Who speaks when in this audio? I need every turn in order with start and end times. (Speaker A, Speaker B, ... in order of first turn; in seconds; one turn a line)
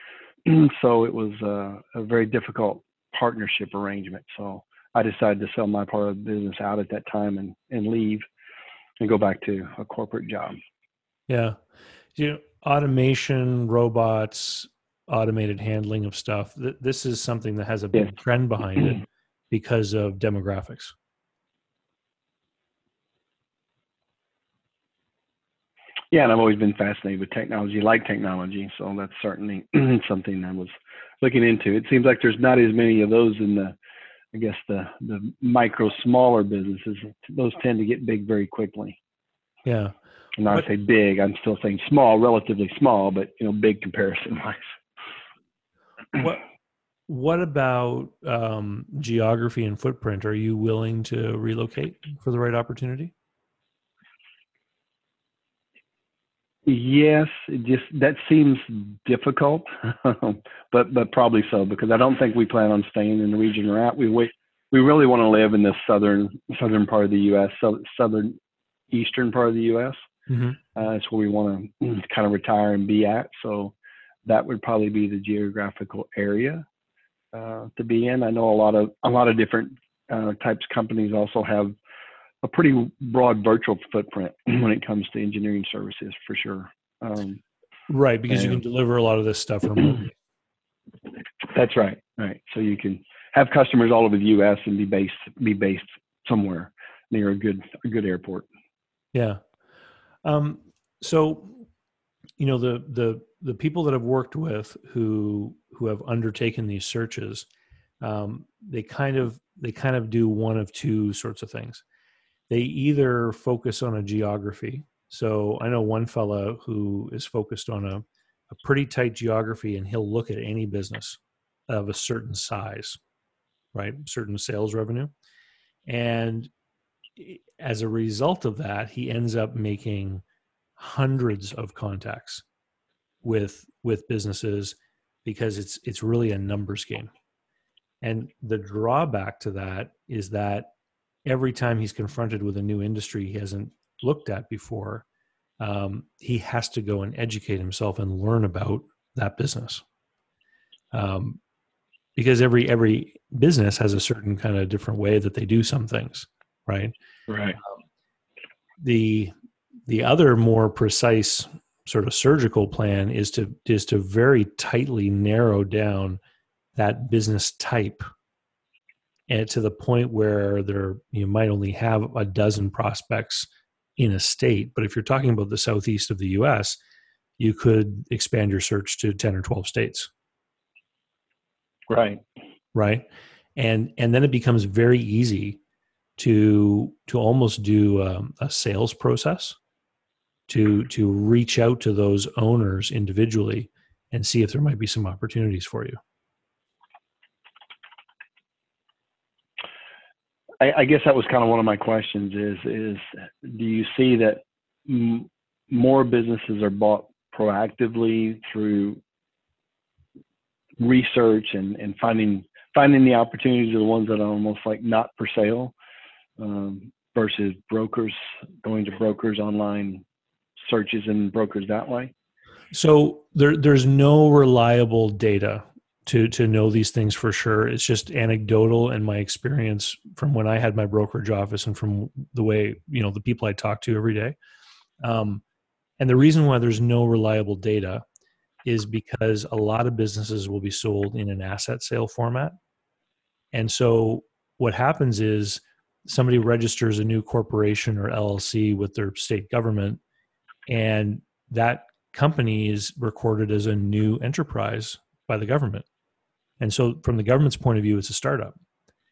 Speaker A: 0.4-8.2
Speaker A: 9.0-10.6
Speaker B: 11.3-11.6
Speaker B: 12.2-20.9
Speaker A: 26.1-33.7
Speaker A: 34.3-39.0
Speaker B: 39.6-39.9
Speaker A: 40.4-44.6
Speaker B: 47.1-53.1
Speaker A: 56.6-68.3
Speaker A: 68.9-70.0
Speaker B: 70.3-70.6
Speaker A: 70.7-73.7
Speaker A: 74.2-76.7
Speaker A: 77.3-81.7
Speaker A: 82.4-87.4
Speaker B: 87.9-90.1
Speaker A: 88.3-88.6
Speaker A: 91.4-98.5
Speaker B: 99.1-99.4
Speaker B: 100.2-101.7
Speaker B: 102.4-107.5
Speaker B: 108.0-111.8
Speaker B: 112.5-123.0
Speaker B: 123.7-125.1
Speaker B: 125.9-126.5
Speaker B: 127.2-130.2
Speaker B: 130.8-132.4
Speaker B: 133.2-137.1
Speaker B: 138.0-140.7
Speaker B: 141.2-145.0
Speaker B: 145.6-149.8
Speaker B: 150.9-151.4
Speaker B: 152.2-156.9
Speaker A: 157.3-157.6
Speaker B: 158.8-159.3
Speaker B: 159.9-166.2
Speaker B: 166.8-168.1
Speaker B: 169.3-176.8
Speaker B: 177.4-180.1
Speaker A: 181.9-182.2
Speaker B: 182.7-185.6
Speaker B: 186.2-189.6
Speaker B: 190.5-196.0
Speaker A: 200.6-209.0
Speaker A: 210.8-215.7
Speaker A: 216.4-220.0
Speaker A: 220.6-222.1
Speaker B: 222.7-234.3
Speaker B: 235.0-235.4
Speaker B: 236.0-238.0
Speaker B: 238.6-242.6
Speaker B: 243.5-250.0
Speaker B: 250.7-255.8
Speaker B: 256.6-258.6